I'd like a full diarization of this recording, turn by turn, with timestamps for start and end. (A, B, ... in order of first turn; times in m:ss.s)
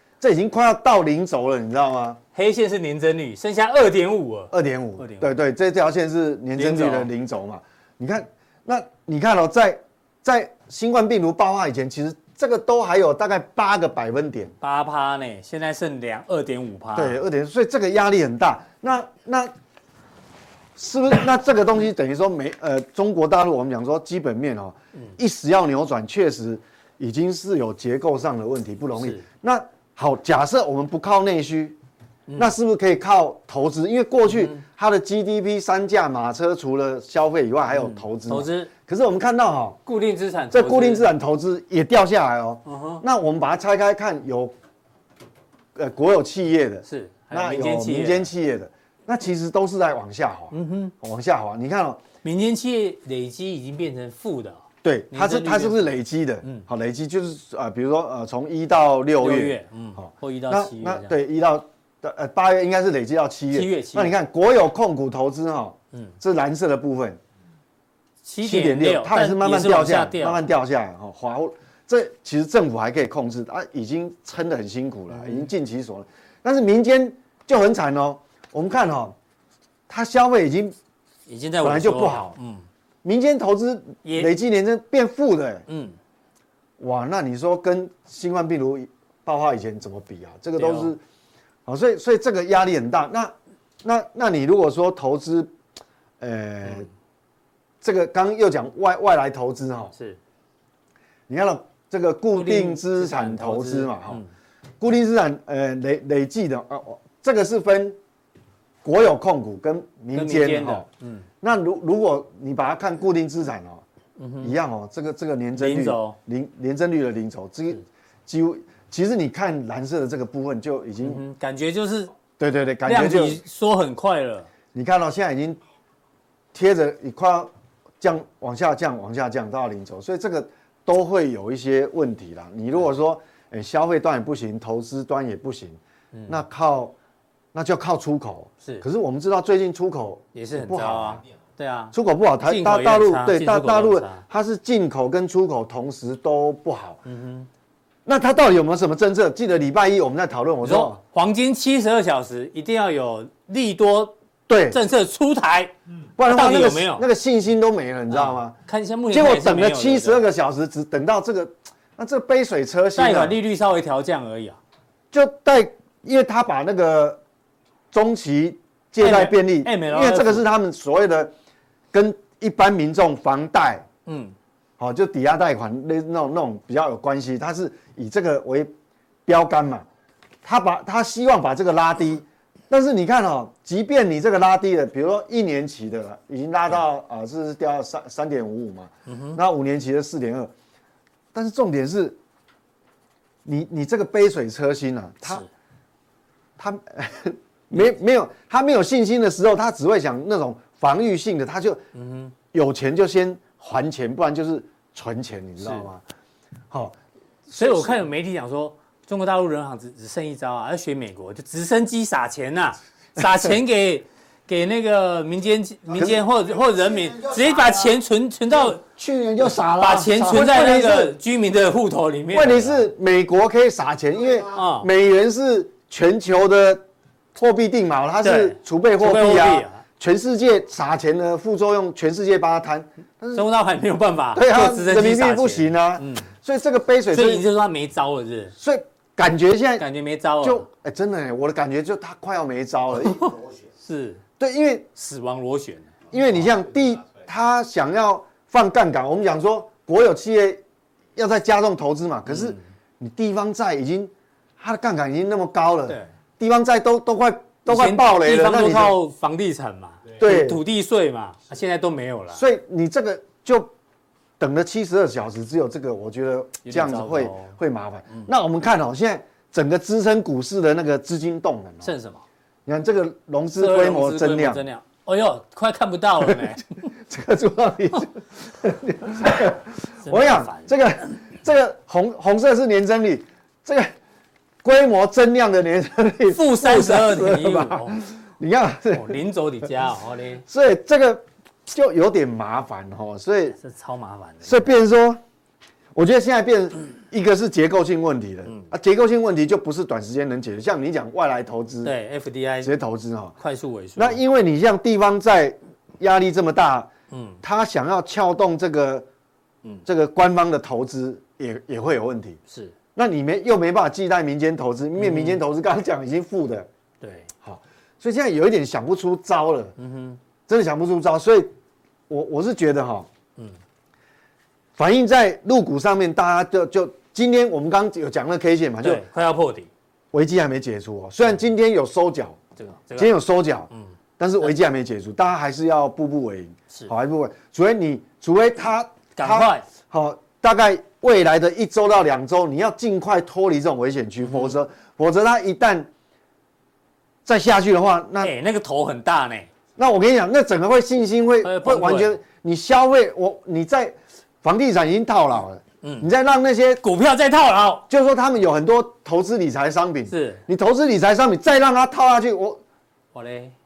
0:00.2-0:02.2 A
0:02.3-0:05.3 B
0:04.5-0:14.5 A
0:06.6-0:07.1 B
0:14.6-0:17.2 B
0:16.9-0:19.5 A
0:20.8-0:31.8 A
0:29.0-0:29.2 B
0:32.3-0:32.5 B
0:32.4-0:39.8 A
0:34.3-0:34.6 B
0:37.7-0:38.7 B
0:39.8-0:41.1 B
0:40.5-0:44.5 A
0:42.6-0:43.0 B
0:45.7-0:52.0 A
0:46.8-0:48.3 B
0:50.5-0:50.9 B
0:52.2-0:56.6 B
0:54.8-1:07.2 A
0:59.2-1:01.1 B
1:03.5-1:04.2 B
1:08.2-1:10.4 B
1:08.4-1:19.2 A
1:15.1-1:15.5 B
1:19.9-1:20.7 A
1:21.3-1:22.6 B
1:21.6-1:22.4 A
1:23.0-1:25.6 A
1:24.0-1:24.3 B
1:25.7-1:26.0 B
1:26.8-1:31.0 A
1:30.6-1:30.9 B
1:31.6-1:35.5 A
1:36.2-1:36.9 A
1:37.8-1:39.9 A
1:39.9-1:40.2 B
1:41.3-1:44.2 A
1:42.3-1:44.3 B
1:44.8-1:48.0 A
1:48.8-1:50.9 A
1:50.1-1:51.3 B
1:51.4-1:53.8 A
1:54.2-1:54.6 B
1:54.4-2:01.2 A
1:55.5-1:56.2 B
2:01.0-2:02.1 B
2:02.4-2:03.4 A
2:02.8-2:04.5 B
2:04.7-2:05.6 A
2:06.5-2:16.9 A
2:16.1-2:16.4 B
2:17.5-2:21.2 A
2:20.3-2:24.2 B
2:21.9-2:27.0 A
2:27.0-2:27.5 B
2:28.0-2:31.0 A
2:30.6-2:34.1 B
2:34.5-2:34.8 A
2:34.7-2:37.0 B
2:36.2-2:38.5 A
2:38.1-2:40.2 B
2:39.1-2:43.4 A
2:42.9-2:44.6 B
2:45.1-2:47.2 A
2:47.9-2:51.3 A
2:49.0-2:50.4 B
2:51.9-2:53.8 A
2:54.0-2:54.3 B
2:54.8-2:58.7 A
2:59.2-2:59.8 A
3:00.4-3:10.5 A
3:09.1-3:09.4 B
3:11.3-3:12.2 A
3:13.4-3:15.4 A
3:16.6-3:21.8 A
3:21.9-3:22.3 B
3:22.5-3:26.0 A
3:25.6-3:25.8 B
3:26.7-3:28.0 A
3:27.6-3:38.8 B
3:38.7-3:40.9 C
3:39.8-3:42.8 B
3:40.5-3:41.1 A
3:42.3-3:53.5 A
3:44.5-3:44.9 B
3:48.2-3:49.8 B
3:53.3-3:56.3 B
3:54.3-3:57.4 A
3:57.1-3:58.6 B
3:58.6-3:59.8 A
3:59.8-4:00.7 B
4:00.4-4:03.4 A
4:03.0-4:04.2 B
4:04.4-4:04.9 A
4:04.9-4:06.5 B
4:06.1-4:10.6 A
4:11.2-4:19.0 A
4:12.3-4:12.6 B
4:17.7-4:22.4 B
4:20.2-4:20.6 A
4:22.3-4:23.7 A
4:24.4-4:31.9 A
4:26.6-4:27.5 B
4:31.8-4:32.2 B
4:32.6-4:34.6 A
4:33.6-4:36.8 B
4:36.2-4:43.9 A
4:40.0-4:40.7 B
4:44.6-4:49.2 A
4:46.3-4:48.0 B
4:48.9-4:50.4 B
4:50.5-4:53.6 A
4:53.6-4:54.7 B
4:54.4-4:55.2 A
4:55.9-5:01.9 A
5:01.8-5:02.7 B
5:02.6-5:03.3 A
5:03.4-5:04.2 B
5:04.0-5:06.9 A
5:07.1-5:07.4 B
5:07.4-5:09.0 A
5:09.8-5:12.4 A
5:12.5-5:12.7 B
5:13.0-5:16.7 A
5:15.0-5:15.4 B
5:17.0-5:17.3 B
5:17.4-5:19.7 A
5:19.8-5:20.2 B
5:20.5-5:21.5 A
5:22.1-5:23.1 A
5:24.8-5:29.0 A
5:28.8-5:29.7 B
5:30.1-5:32.4 A
5:32.6-5:33.1 B
5:33.0-5:45.9 A
5:39.2-5:39.7 B
5:44.2-5:44.5 B
5:47.2-5:48.3 A
5:48.2-5:49.5 B
5:49.8-5:56.8 A
5:51.4-5:52.2 B
5:55.8-5:56.1 B
5:56.8-5:57.8 B
5:57.9-6:02.6 A
6:00.1-6:00.4 B
6:03.1-6:03.5 B